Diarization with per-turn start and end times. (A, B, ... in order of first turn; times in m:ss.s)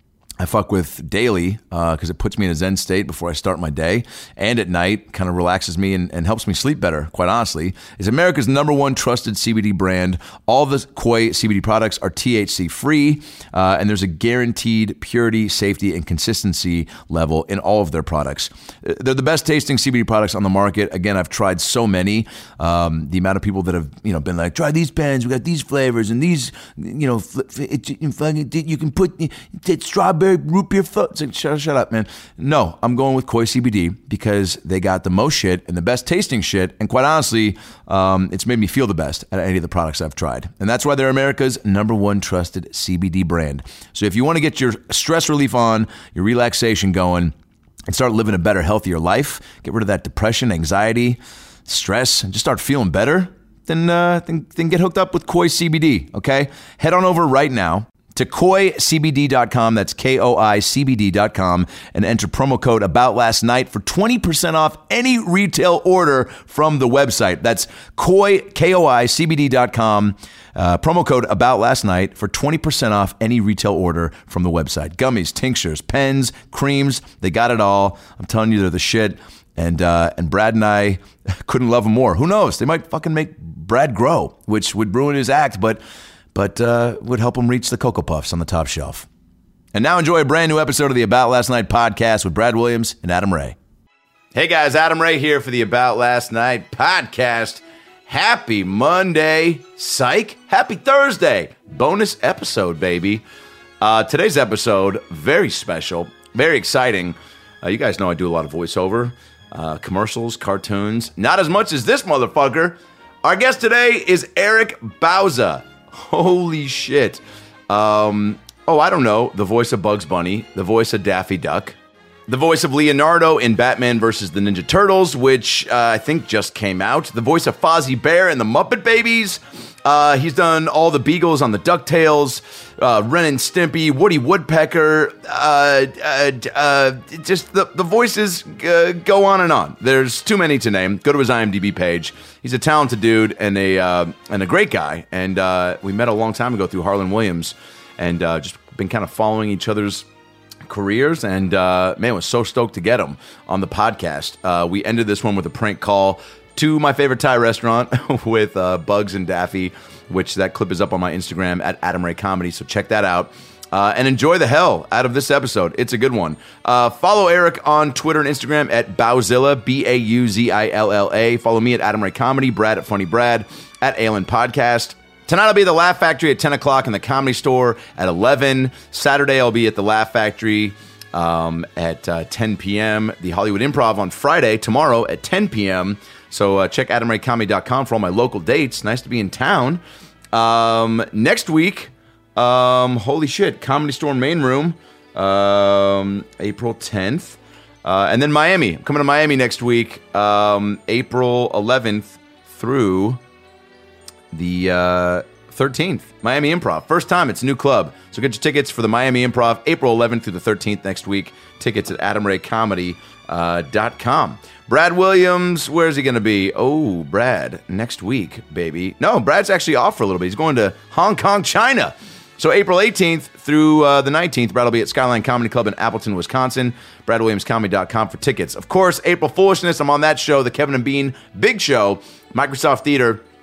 0:00.4-0:47.3 A
0:47.9-1:25.8 A
1:26.3-1:29.1 A
1:29.7-1:33.6 A
1:34.3-1:43.2 A
1:43.8-2:01.8 A
2:02.3-2:30.0 A
2:30.6-3:23.2 A
3:24.3-3:53.2 A